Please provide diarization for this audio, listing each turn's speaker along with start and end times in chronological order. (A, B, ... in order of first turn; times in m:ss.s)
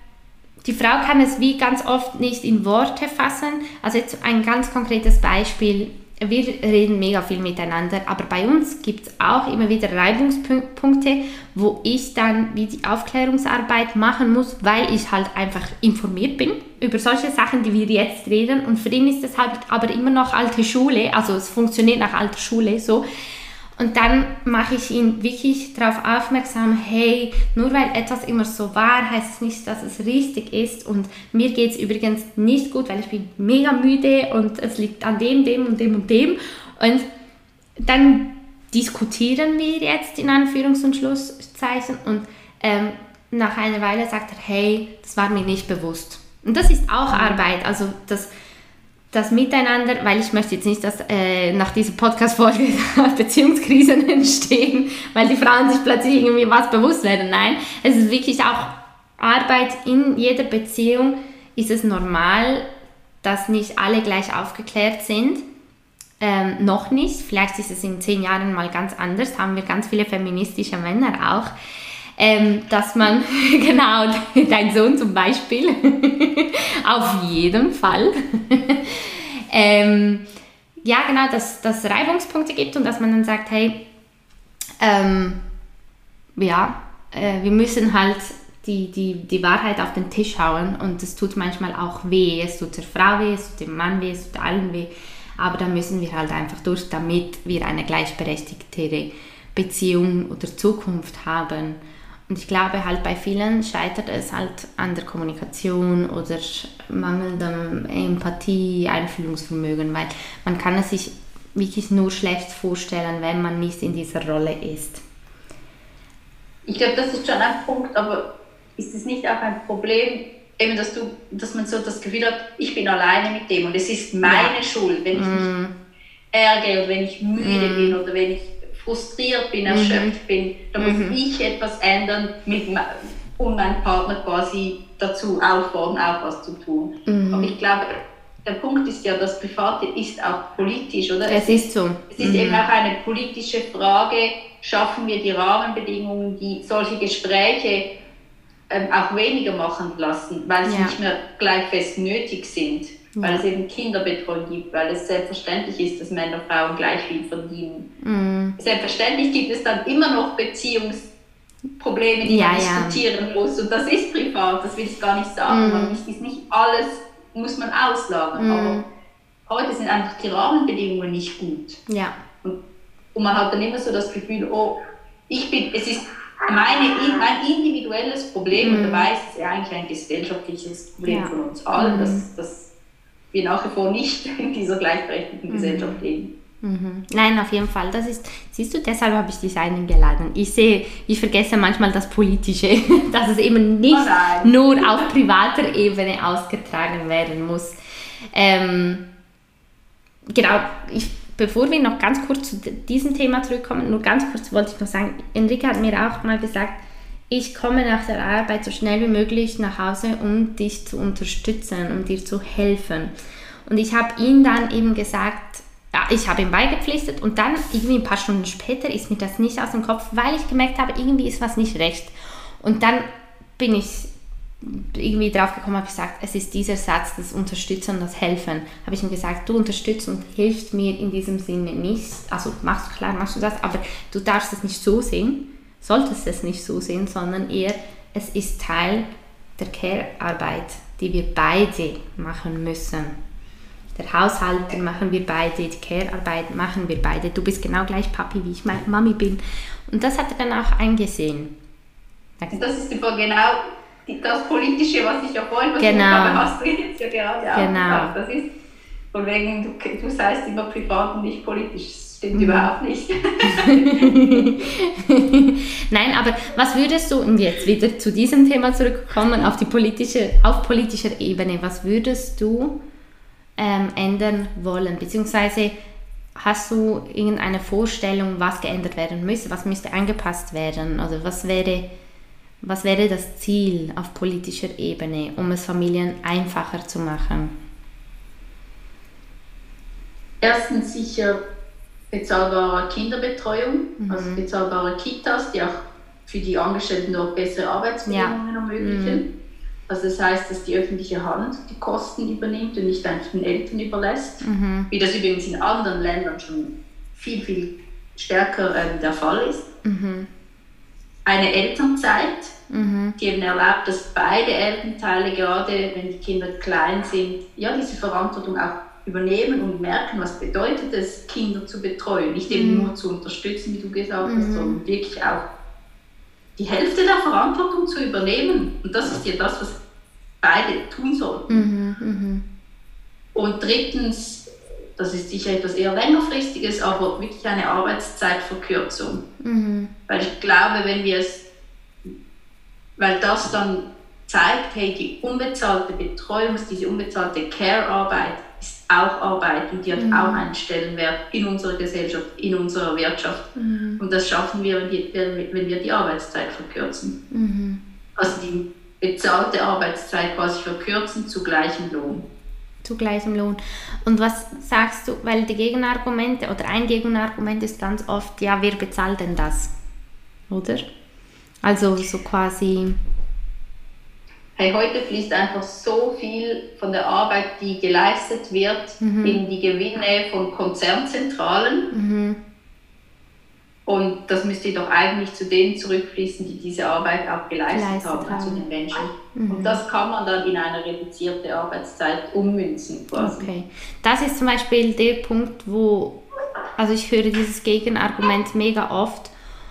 0:00.6-0:23.0 A
0:23.8-0:37.1 A
0:37.8-0:48.3 A
0:47.1-0:47.4 B
0:49.1-1:02.7 A
1:03.2-1:05.4 A
1:06.2-1:11.5 A
1:12.2-1:20.3 A
1:20.8-1:23.8 A
1:24.8-1:25.4 A
1:26.4-1:55.0 A
1:56.7-2:05.5 B
2:04.2-2:04.6 A
2:05.1-2:05.7 A
2:06.3-2:27.9 B
2:07.4-2:08.0 A
2:09.7-2:10.2 A
2:10.8-2:11.2 A
2:17.1-2:17.6 A
2:21.3-2:22.7 A
2:28.7-2:37.9 B
2:30.6-2:31.0 A
2:33.2-2:33.4 A
2:38.0-2:38.6 A
2:38.6-2:41.1 B
2:41.8-2:48.8 B
2:42.2-2:43.0 A
2:45.5-2:46.0 A
2:48.4-2:48.8 A
2:49.5-2:51.8 B
2:51.9-2:52.2 A
2:53.2-2:54.8 B
2:55.3-3:02.7 B
2:58.5-2:59.1 A
3:01.1-3:02.2 A
3:03.3-3:06.3 B
3:05.5-3:06.0 A
3:06.6-3:17.8 A
3:13.9-3:15.1 B
3:18.3-3:19.0 A
3:20.3-3:33.1 A
3:33.7-3:43.1 A
3:43.6-3:44.1 A
3:44.6-3:59.1 A
3:59.6-4:03.2 A
4:04.0-4:11.5 A
4:12.5-4:18.5 B
4:15.8-4:16.5 A
4:17.5-4:18.2 A
4:19.1-4:24.2 B
4:22.3-4:22.7 A
4:23.4-4:32.8 A
4:33.6-4:35.8 A
4:36.4-4:41.9 A
4:42.6-4:47.6 A
4:50.4-4:51.4 B
4:52.1-4:59.3 B
4:54.0-4:54.4 A
4:58.1-4:59.2 A
4:59.9-5:09.7 B
5:04.4-5:04.9 A
5:09.8-5:10.3 A
5:11.2-5:12.5 B
5:12.7-5:13.2 A
5:13.2-5:25.5 B
5:22.5-5:22.9 A
5:24.2-5:24.8 A
5:26.6-5:29.8 B
5:30.4-5:31.7 B
5:31.5-5:32.4 A
5:33.3-5:39.2 B
5:39.4-5:39.9 A
5:40.1-5:41.4 B
5:43.0-5:57.2 B
5:50.0-5:50.5 A
5:53.6-5:54.0 A
5:57.3-5:57.8 A
5:58.2-6:02.3 B
6:02.8-6:09.7 A
6:10.5-6:10.8 A
6:11.6-6:13.0 A
6:14.6-6:21.9 B
6:19.0-6:19.4 A
6:21.9-6:22.4 A
6:23.9-6:33.5 B
6:27.7-6:28.7 A
6:29.3-6:29.8 A
6:33.2-6:36.2 A
6:36.8-6:39.3 A